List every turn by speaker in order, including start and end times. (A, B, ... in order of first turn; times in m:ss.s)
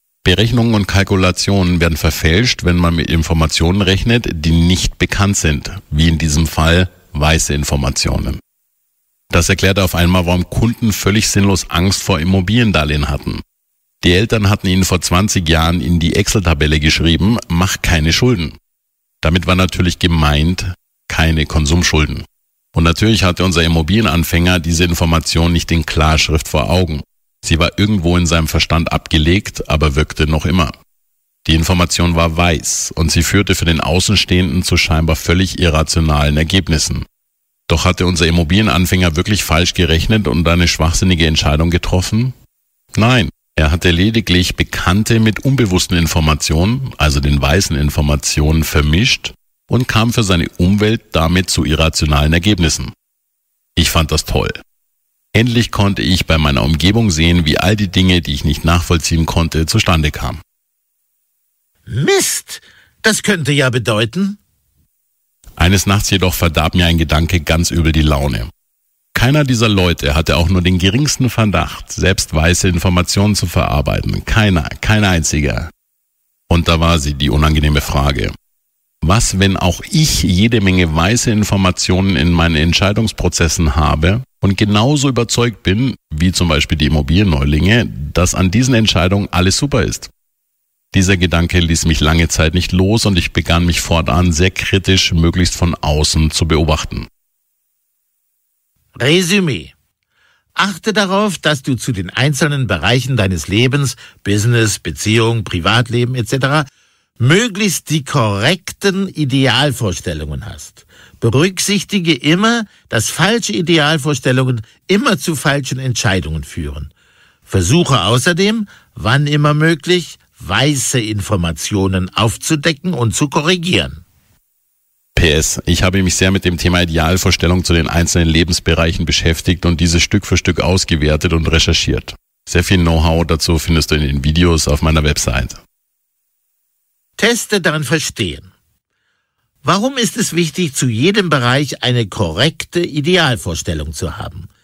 0:00.2-0:08.4 A
0:09.3-0:13.4 A
0:14.0-0:18.6 A
0:19.2-0:30.7 A
0:31.4-0:37.0 A
0:37.7-0:42.3 A
0:42.9-0:52.9 A
0:53.8-0:54.6 A
0:55.3-1:00.4 A
1:01.9-1:04.4 B
1:05.6-1:08.5 A
1:09.1-1:15.7 A
1:16.5-1:18.3 A
1:19.0-1:30.1 A
1:30.9-1:37.1 A
1:39.0-1:39.7 B
1:40.6-1:46.7 B
1:47.2-1:56.9 B
1:57.5-2:04.0 B
2:05.2-2:15.6 A
2:17.2-2:18.5 B
2:19.6-2:24.5 B